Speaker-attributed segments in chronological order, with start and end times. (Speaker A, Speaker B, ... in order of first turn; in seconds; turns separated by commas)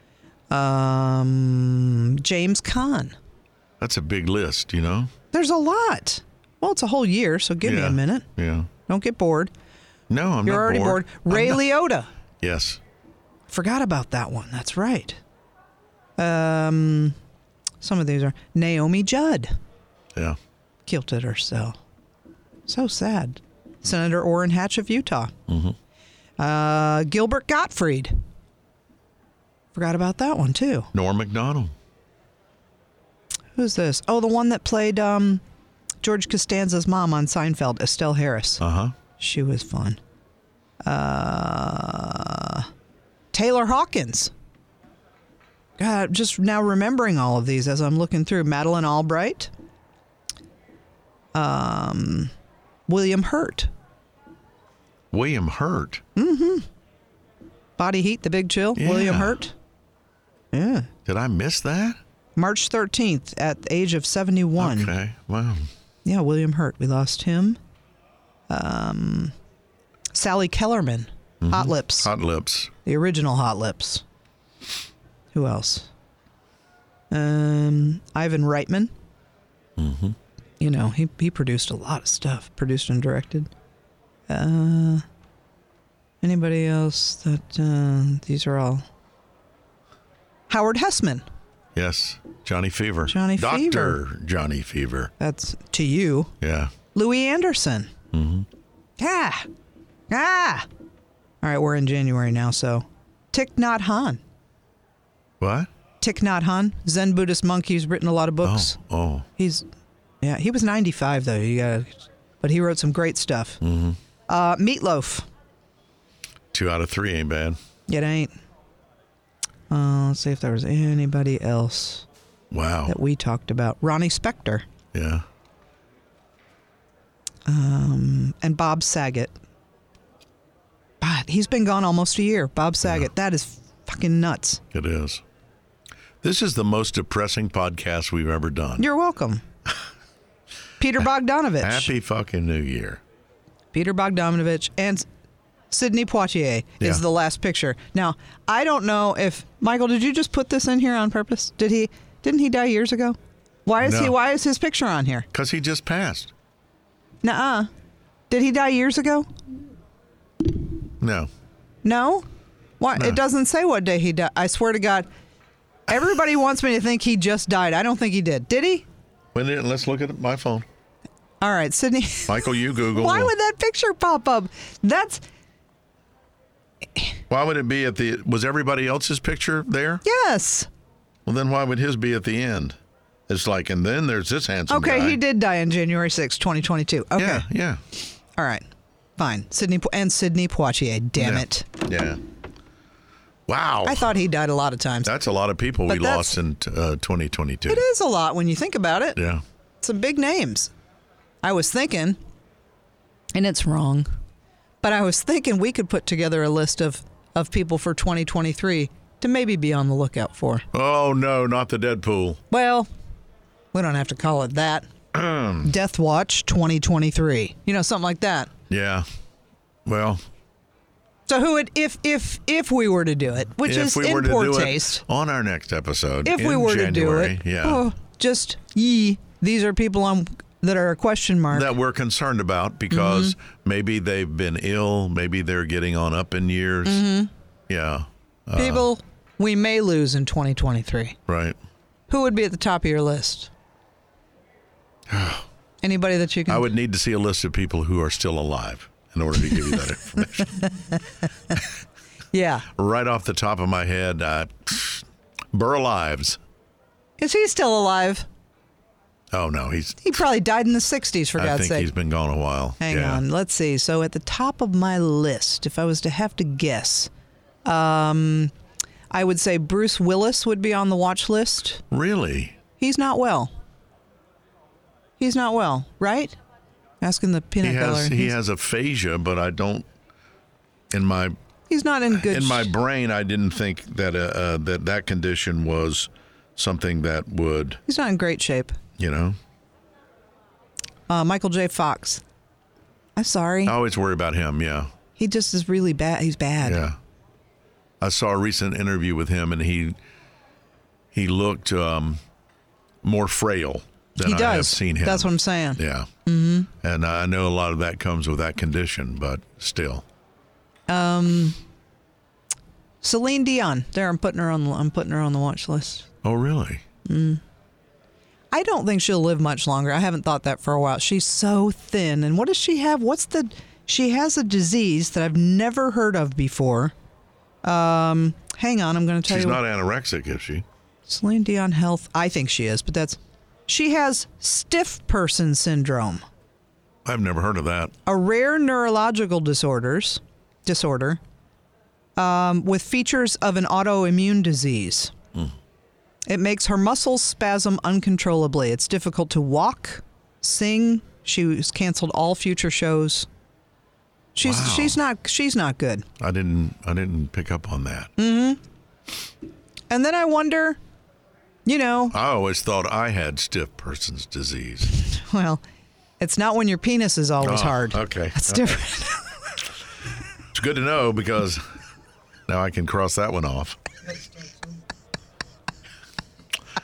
Speaker A: 0.5-3.1, Speaker B: 3.8-5.1, Speaker A: 5.3-8.2, Speaker B: 7.6-8.7, Speaker A: 8.9-9.5, Speaker B: 10.1-11.6, Speaker A: 10.4-12.1, Speaker B: 12.4-12.8, Speaker A: 13.5-15.2, Speaker A: 16.2-17.2, Speaker A: 17.8-19.5, Speaker A: 20.9-21.8, Speaker A: 22.7-25.3, Speaker B: 25.5-25.8, Speaker A: 26.4-28.2, Speaker A: 29.7-30.9, Speaker B: 30.9-31.7, Speaker A: 33.6-35.4, Speaker A: 36.0-38.6, Speaker B: 38.6-39.0, Speaker A: 39.2-40.0, Speaker A: 40.8-42.7, Speaker A: 43.3-44.3, Speaker A: 45.8-49.5, Speaker A: 51.3-52.3, Speaker A: 52.9-53.7, Speaker B: 55.1-56.0, Speaker A: 56.2-56.7, Speaker A: 57.8-59.5, Speaker B: 58.8-59.4, Speaker A: 60.5-60.9, Speaker B: 61.1-62.0, Speaker A: 62.4-64.9, Speaker B: 64.6-65.7, Speaker A: 66.0-67.6, Speaker A: 68.5-69.3, Speaker A: 70.1-72.1, Speaker B: 71.4-72.7, Speaker A: 72.8-74.0, Speaker A: 75.3-75.9, Speaker A: 77.1-78.9, Speaker B: 79.8-80.2, Speaker A: 80.6-83.5, Speaker A: 84.3-85.0, Speaker A: 86.2-88.8, Speaker A: 90.5-91.2, Speaker B: 91.8-95.1, Speaker A: 93.1-94.0, Speaker A: 95.2-96.3, Speaker B: 96.4-96.7, Speaker A: 96.9-97.9, Speaker B: 98.1-98.5, Speaker A: 99.0-99.5, Speaker A: 100.1-100.7, Speaker A: 101.4-104.2, Speaker B: 105.4-105.7, Speaker A: 106.0-108.8, Speaker B: 108.4-109.3, Speaker A: 109.4-109.7, Speaker A: 110.2-113.6, Speaker B: 113.6-114.0, Speaker A: 114.3-115.3, Speaker B: 116.5-117.6, Speaker A: 117.9-118.3, Speaker A: 119.7-122.0, Speaker B: 122.5-123.0, Speaker A: 122.9-124.7, Speaker B: 124.9-125.2, Speaker A: 127.5-129.3, Speaker A: 131.0-134.6, Speaker B: 134.7-135.2, Speaker B: 136.2-138.9, Speaker A: 138.8-139.4, Speaker A: 140.8-141.9, Speaker B: 141.6-143.0, Speaker A: 143.7-145.1, Speaker A: 145.7-155.3, Speaker B: 153.8-154.2, Speaker B: 155.3-156.3, Speaker A: 157.2-157.7, Speaker A: 158.3-159.3, Speaker B: 161.0-161.3, Speaker A: 161.8-162.3, Speaker A: 162.8-165.1, Speaker A: 165.9-168.9, Speaker B: 169.3-170.7, Speaker A: 171.4-175.2, Speaker B: 172.3-173.3, Speaker B: 177.3-180.0, Speaker A: 180.0-180.7, Speaker B: 181.3-182.8, Speaker B: 183.3-185.2, Speaker A: 184.7-187.5, Speaker B: 187.2-187.8, Speaker A: 188.4-188.6, Speaker A: 189.2-191.8, Speaker B: 191.2-192.2, Speaker B: 193.5-194.1, Speaker A: 193.8-195.1, Speaker B: 195.0-197.8, Speaker A: 195.9-196.4, Speaker A: 197.7-199.2, Speaker B: 199.2-199.4, Speaker A: 199.8-200.7, Speaker A: 201.4-202.2, Speaker A: 203.3-204.1, Speaker A: 204.8-210.7, Speaker B: 210.7-212.4, Speaker A: 212.5-212.9, Speaker A: 213.7-214.9, Speaker B: 215.1-215.7, Speaker A: 215.6-218.5, Speaker B: 218.7-219.1, Speaker B: 219.9-220.2, Speaker A: 221.3-225.0, Speaker B: 223.6-227.8, Speaker A: 226.2-231.7, Speaker B: 231.5-237.1, Speaker A: 232.9-233.3, Speaker A: 236.9-237.3, Speaker B: 237.7-238.9, Speaker A: 238.6-241.2, Speaker B: 241.3-241.6, Speaker A: 242.1-243.5, Speaker B: 245.1-245.5, Speaker A: 245.8-246.7, Speaker B: 246.5-250.7, Speaker A: 250.5-251.0, Speaker A: 252.3-252.7, Speaker B: 252.8-256.4, Speaker A: 257.2-258.3, Speaker B: 259.3-260.2, Speaker A: 260.0-261.9, Speaker B: 261.4-263.2, Speaker A: 262.8-267.1, Speaker A: 267.6-268.5, Speaker A: 269.1-271.8, Speaker B: 271.9-272.6, Speaker A: 272.8-273.5, Speaker A: 275.2-276.4, Speaker A: 277.0-278.3, Speaker B: 277.6-279.9, Speaker B: 280.9-281.4, Speaker A: 281.7-282.7, Speaker B: 282.1-287.8, Speaker A: 287.9-288.8, Speaker B: 289.0-289.4, Speaker A: 291.1-292.2, Speaker A: 293.2-293.8, Speaker B: 293.6-294.9, Speaker A: 295.2-296.9, Speaker B: 296.6-297.0, Speaker B: 298.0-300.0, Speaker B: 301.1-302.2, Speaker B: 303.0-306.1, Speaker A: 304.2-306.7, Speaker B: 306.8-310.1, Speaker A: 310.9-311.6, Speaker A: 313.0-316.1, Speaker B: 316.2-316.8, Speaker A: 317.1-317.4, Speaker A: 318.5-326.9, Speaker A: 327.6-329.6, Speaker B: 329.3-330.6, Speaker A: 331.1-336.2, Speaker B: 337.1-337.9, Speaker A: 338.1-341.2, Speaker A: 342.2-345.1, Speaker A: 346.3-353.3, Speaker A: 354.4-356.1, Speaker B: 354.4-355.0, Speaker B: 356.2-358.1, Speaker A: 358.2-358.6, Speaker A: 359.9-360.8, Speaker A: 361.7-362.1, Speaker B: 362.1-364.9, Speaker A: 364.9-365.6, Speaker A: 366.2-369.3, Speaker B: 367.4-368.8, Speaker B: 370.5-371.6, Speaker B: 372.5-373.8